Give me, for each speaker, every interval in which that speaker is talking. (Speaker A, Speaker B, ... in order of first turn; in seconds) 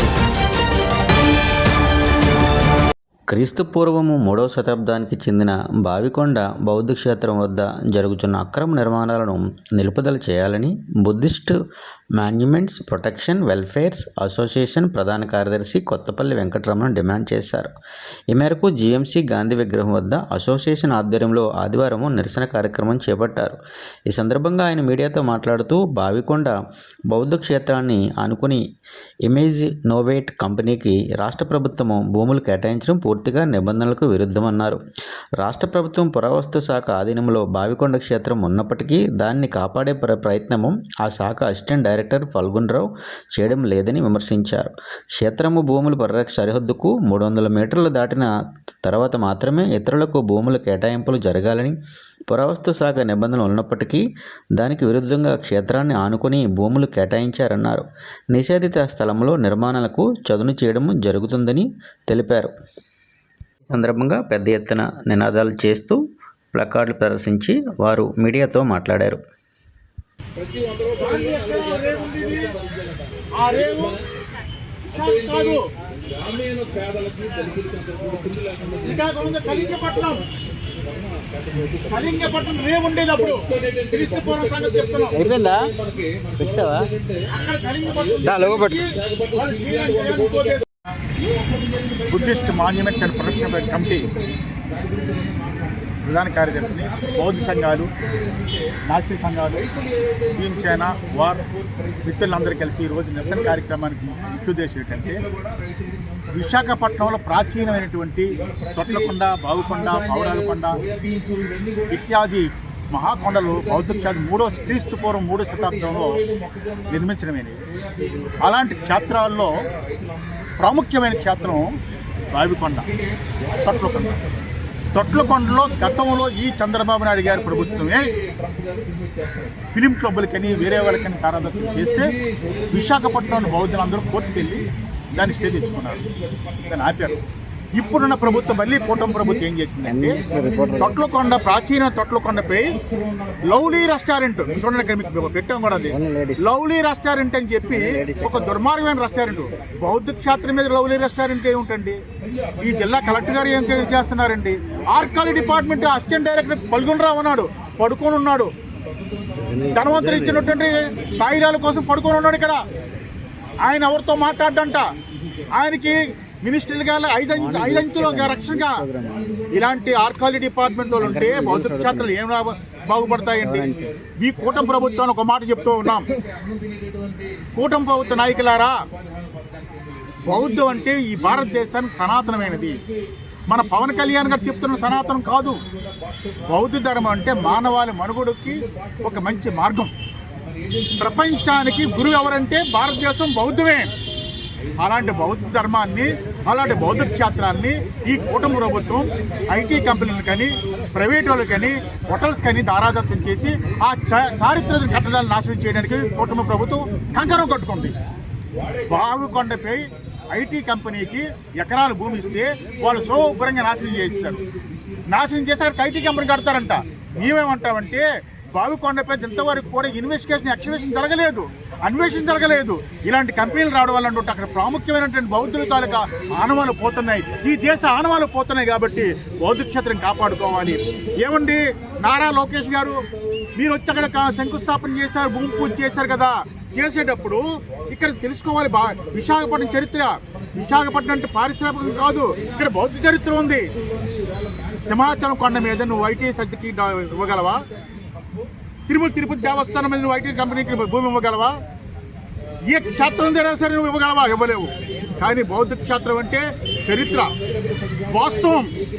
Speaker A: 3.3-11.6, 12.2-17.7, 18.3-23.6, 24.1-26.6, 27.1-28.6, 29.3-34.8, 35.4-48.3, 48.8-51.8, 52.3-54.0, 54.6-62.5, 63.7-66.0, 66.5-69.2
Speaker B: 70.9-72.5, 73.4-74.0, 74.9-75.6, 78.8-80.2, 81.7-85.2, 87.3-90.6, 92.1-94.1, 96.0-97.9, 98.9-99.6, 100.3-101.4, 102.0-105.2, 106.3-110.8, 111.9-116.2, 116.9-117.6, 118.4-119.5, 120.6-121.7, 122.3-122.9, 123.6-124.2, 124.9-128.1, 129.7-132.1, 132.7-136.0, 136.6-137.2, 137.8-140.2, 140.8-142.7, 143.5-152.0, 152.6-158.5, 159.7-162.6, 163.6-164.8, 165.6-168.8, 169.5-176.1, 177.5-178.8, 180.2-182.8, 183.5-185.6, 186.5-189.9, 191.0-193.9, 194.8-207.9, 208.8-214.4, 215.1-233.0, 233.6-243.7, 244.8-247.6, 248.9-251.6, 252.7-257.3, 258.1-258.7
Speaker C: 85.1-85.8, 86.4-86.9, 88.2-88.8, 139.9-141.0, 145.9-146.4, 147.7-148.4, 159.4-160.5, 167.4-169.4, 171.0-172.1, 173.4-174.0